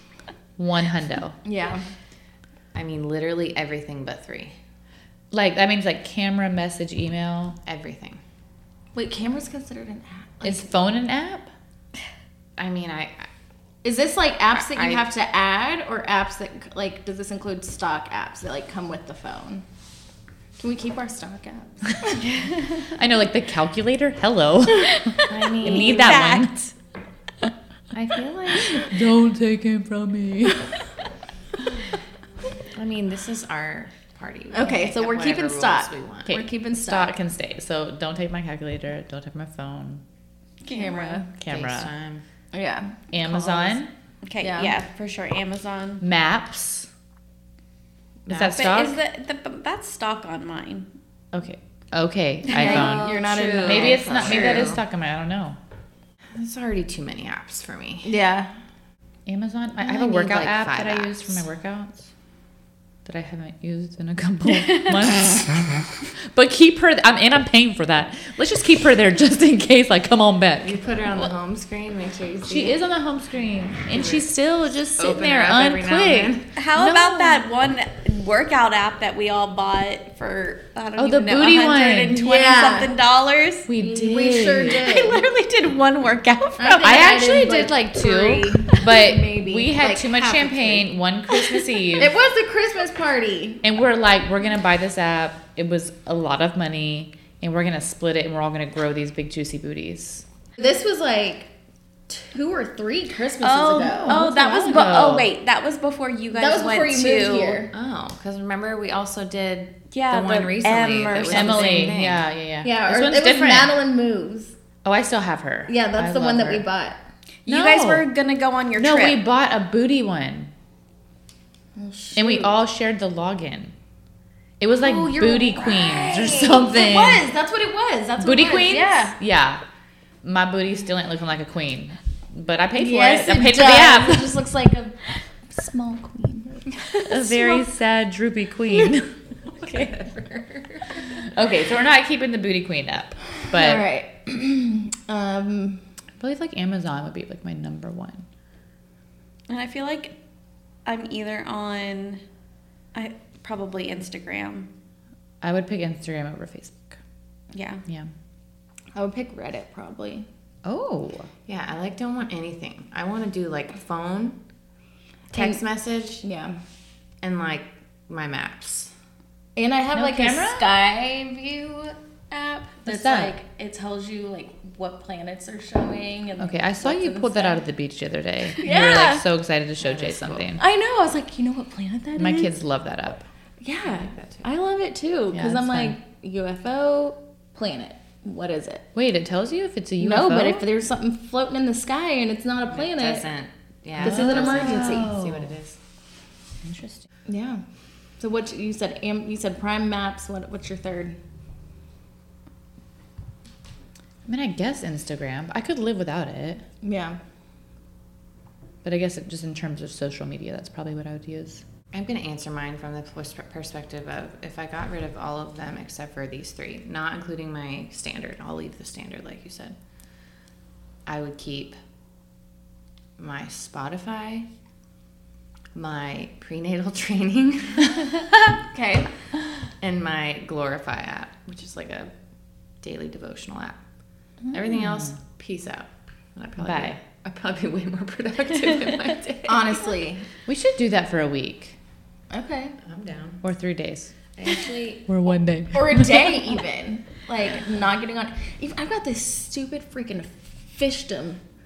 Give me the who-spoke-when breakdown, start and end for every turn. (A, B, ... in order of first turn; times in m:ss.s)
0:00.6-0:01.4 A
0:01.4-0:01.8 B
0:02.7-0:04.6 C
0:05.3-0:07.6 A
0:07.6-0:08.2 C
0:09.0-0:10.7 B
0:10.4-0:11.5 A
0:12.6-0:13.3 C
0:13.8-0:19.6 B
0:14.6-0:15.0 C
0:20.6-0:22.2 B
0:22.2-0:22.8 D
0:23.0-0:26.7 A
0:24.9-0:26.6 D
0:25.3-0:26.3 C
0:27.9-0:28.9 C
0:28.7-0:30.8 A
0:32.7-0:36.3 C
0:34.5-0:37.1 B
0:36.3-0:40.0 A
0:40.6-0:41.2 D
0:40.7-0:41.3 B
0:41.4-0:41.9 A
0:41.4-0:42.2 C
0:42.5-0:43.8 B
0:43.1-0:43.9 A
0:44.2-0:46.0 D
0:44.4-0:44.8 B
0:46.0-0:46.9 A
0:48.3-0:48.6 C
0:48.3-0:49.0 A
0:48.5-0:50.9 D
0:51.3-0:55.6 A
0:52.5-0:53.3 D
0:52.5-0:54.5 B
0:52.7-0:54.8 C
0:54.3-0:54.6 D
0:56.4-0:58.1 C
0:58.0-0:58.5 B
0:59.3-1:02.1 A
0:59.8-1:01.4 C
1:03.0-1:10.8 A
1:10.6-1:12.8 C
1:12.5-1:17.5 A
1:13.9-1:14.3 C
1:15.0-1:16.5 C
1:16.5-1:23.7 D
1:21.0-1:22.2 A
1:22.2-1:22.9 B
1:23.7-1:24.9 A
1:23.8-1:25.2 B
1:24.7-1:27.0 D
1:26.6-1:30.9 B
1:26.8-1:32.1 A
1:32.0-1:33.6 B
1:33.6-1:40.2 A
1:40.6-1:41.5 B
1:42.1-1:45.1 B
1:43.4-1:47.6 D
1:43.8-1:45.3 A
1:46.4-1:47.7 B
1:47.7-1:52.2 C
1:49.9-1:51.9 D
1:51.3-1:53.7 A
1:52.6-1:54.6 B
1:54.8-1:56.7 A
1:55.7-1:57.0 B
1:57.5-1:59.2 D
1:57.5-1:58.1 A
1:58.8-2:00.5 A
2:01.8-2:02.6 B
2:02.2-2:03.7 A
2:04.6-2:07.3 A
2:04.8-2:09.2 B
2:08.2-2:09.6 A
2:10.2-2:14.4 A
2:12.8-2:17.5 B
2:17.0-2:19.1 A
2:19.5-2:21.0 C
2:21.1-2:23.8 A
2:23.5-2:25.8 B
2:26.2-2:28.3 A
2:29.5-2:30.1 D
2:30.8-2:32.2 D
2:32.9-2:34.7 D
2:35.4-2:37.0 A
2:37.5-2:37.8 D
2:39.0-2:40.3 B
2:40.6-2:41.3 A
2:41.5-2:44.4 C
2:45.3-2:45.6 B
2:45.3-2:46.2 C
2:46.2-2:46.6 B
2:47.2-2:48.9 C
2:49.6-2:57.6 B
2:49.9-2:50.7 A
2:52.9-2:53.3 A
2:56.4-3:00.6 A
2:58.6-2:59.2 B
2:59.8-3:00.5 C
3:00.6-3:02.5 B
3:02.2-3:03.3 A
3:03.6-3:08.8 B
3:03.8-3:04.5 C
3:05.3-3:06.0 A
3:09.0-3:10.6 A
3:10.0-3:13.3 B
3:12.7-3:15.8 C
3:14.0-3:15.6 A
3:14.0-3:15.2 B
3:16.6-3:17.1 A
3:17.3-3:17.6 B
3:18.2-3:21.2 B
3:24.3-3:26.6 A
3:26.8-3:27.2 B
3:28.8-3:31.6 A
3:31.9-3:39.8 C
3:41.1-3:41.8 C
3:43.2-3:44.5 C
3:45.8-3:48.3 C
3:48.7-3:49.1 B
3:49.8-3:52.1 C
3:52.8-3:53.8 C
3:54.5-3:59.9 C
3:54.6-3:55.2 A
3:56.6-3:57.0 A
3:59.5-4:00.3 B
4:00.5-4:01.8 A
4:02.3-4:02.8 B
4:02.8-4:03.4 C
4:03.4-4:04.1 A
4:04.4-4:05.1 C
4:05.1-4:06.4 A
4:05.7-4:11.4 B